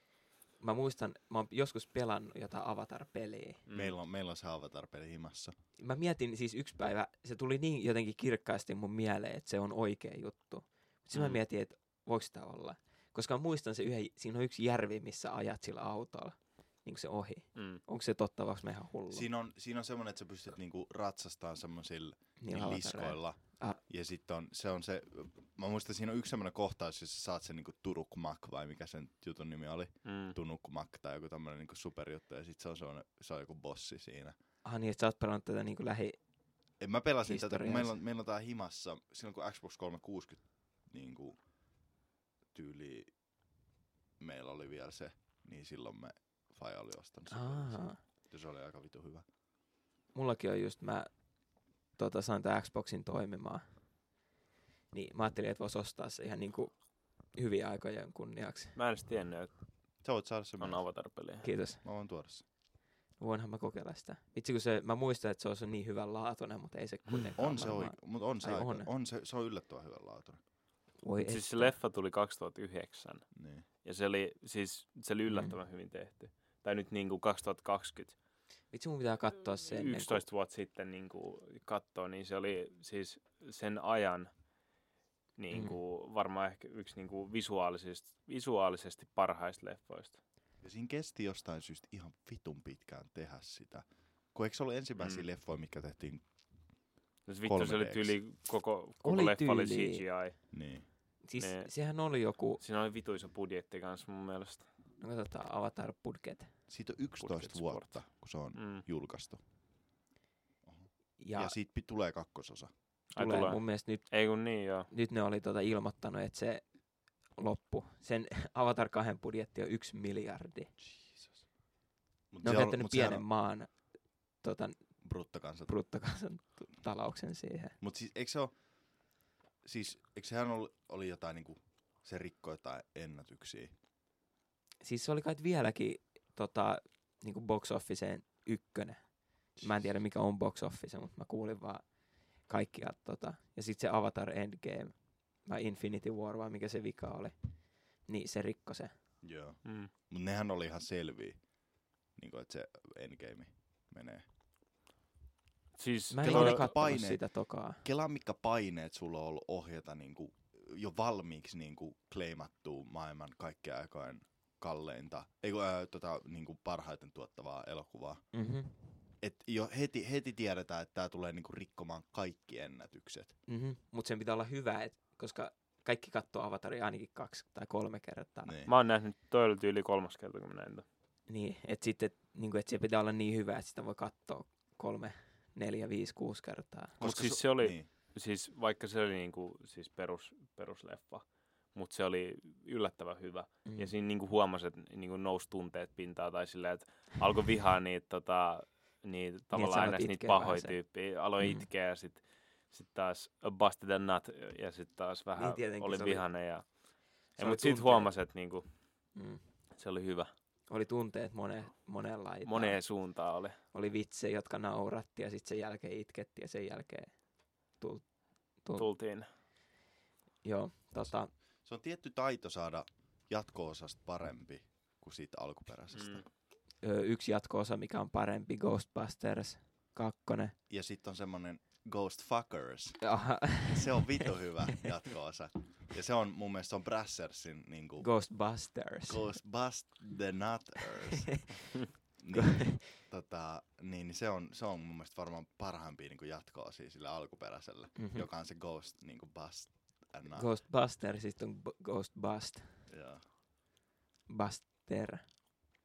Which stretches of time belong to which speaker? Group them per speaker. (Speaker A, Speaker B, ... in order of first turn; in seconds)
Speaker A: 0.6-3.6, 5.8-19.3, 22.4-23.8, 34.6-36.1, 37.2-38.0, 47.3-48.0, 50.1-51.1, 52.0-53.6, 54.9-56.7, 57.4-58.8, 61.4-61.8, 63.2-68.9, 71.0-71.7, 75.3-75.5, 78.7-80.2, 85.5-85.8, 99.0-100.0, 101.2-102.6, 105.0-106.5, 111.2-111.5, 113.1-114.0, 114.9-116.6, 117.4-120.7, 122.4-123.7, 124.4-124.8, 125.7-127.8, 134.8-139.0, 139.6-141.8, 142.5-144.9, 145.4-147.3, 148.1-148.9, 156.1-157.8, 168.3-168.8, 173.5-178.6, 181.3-187.0, 193.6-193.9, 199.5-200.7, 205.4-206.2, 207.4-208.1, 209.2-209.4, 210.7-212.8, 213.7-217.1, 217.8-218.0, 220.4-221.3, 226.8-230.5, 233.0-234.1, 238.0-239.2, 240.9-241.7, 242.3-242.9, 247.9-248.2, 250.3-252.8, 254.3-255.2
Speaker B: 3.7-3.9, 11.1-11.4, 17.6-17.8, 30.0-30.4, 58.8-59.5, 60.6-61.5, 71.2-73.2, 73.8-78.1, 79.6-84.3, 85.4-90.2, 95.0-95.2, 97.2-100.3, 101.4-101.7, 102.6-104.7, 107.2-108.0, 108.5-108.8, 113.1-114.9, 149.6-149.9, 155.8-156.7, 178.7-180.8, 187.0-206.7, 207.4-208.6, 209.8-210.3, 212.4-213.6, 218.8-219.3, 225.9-226.2
Speaker C: 3.7-5.5, 19.1-34.4, 36.8-41.4, 42.5-43.1, 44.2-49.2, 60.0-60.8, 61.8-62.4, 67.4-70.4, 73.3-73.6, 90.6-96.2, 97.4-98.2, 100.5-100.8, 106.7-109.4, 110.7-112.7, 120.9-121.4, 122.3-123.2, 125.0-125.7, 127.8-128.5, 129.6-133.7, 149.2-151.4, 152.2-154.2, 156.2-157.2, 157.8-168.2, 169.2-173.3, 178.4-178.7, 187.0-187.9, 221.6-226.2, 230.7-233.1, 233.6-238.1, 239.1-241.5, 242.2-250.5, 252.9-253.2